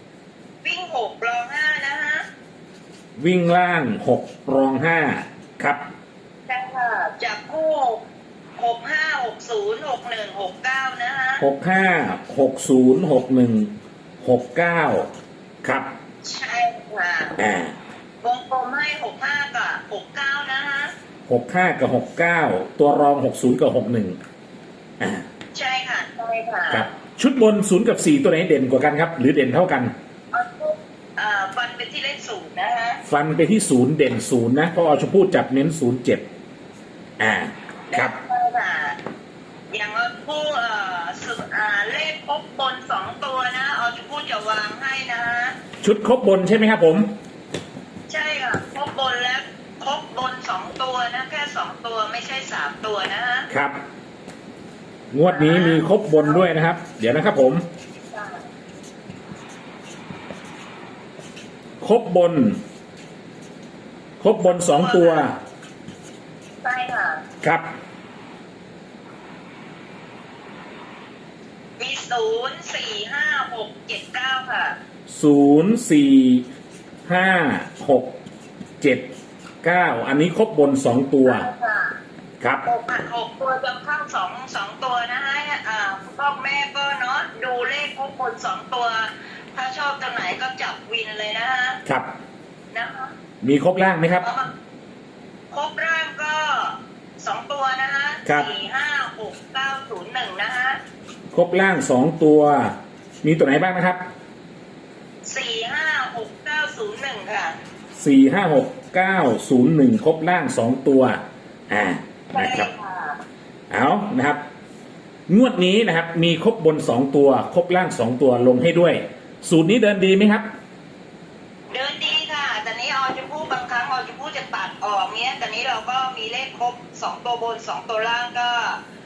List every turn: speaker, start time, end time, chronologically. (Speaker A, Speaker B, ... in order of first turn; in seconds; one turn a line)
Speaker A: 0.6-2.2
Speaker B: 3.2-5.9
Speaker A: 6.5-8.0
Speaker A: 8.6-11.4
Speaker B: 11.4-15.1
Speaker B: 15.6-15.9
Speaker A: 16.2-17.3
Speaker B: 17.4-17.8
Speaker A: 18.2-20.9
Speaker B: 21.3-24.2
Speaker B: 25.0-25.3
Speaker A: 25.5-26.9
Speaker B: 26.7-29.9
Speaker A: 30.3-33.0
Speaker B: 33.0-36.3
Speaker B: 37.2-38.1
Speaker A: 37.9-39.0
Speaker A: 39.7-45.6
Speaker B: 45.8-47.1
Speaker A: 48.1-53.5
Speaker B: 53.5-53.8
Speaker B: 55.1-57.6
Speaker A: 55.2-56.5
Speaker A: 58.1-58.4
Speaker B: 61.8-62.6
Speaker B: 64.2-65.4
Speaker A: 64.5-65.3
Speaker A: 66.6-67.2
Speaker B: 67.4-67.7
Speaker A: 71.8-74.8
Speaker B: 75.1-76.5
Speaker B: 77.1-78.2
Speaker B: 78.8-79.1
Speaker B: 79.6-81.5
Speaker A: 81.2-82.0
Speaker A: 82.7-91.8
Speaker B: 91.8-92.1
Speaker A: 92.7-93.1
Speaker B: 93.4-94.3
Speaker A: 94.2-94.5
Speaker A: 95.5-100.8
Speaker B: 98.2-98.5
Speaker B: 101.3-104.0
Speaker A: 105.3-107.6
Speaker B: 108.0-112.7
Speaker A: 112.3-113.2
Speaker B: 113.7-114.4
Speaker B: 115.3-120.5
Speaker A: 121.7-128.8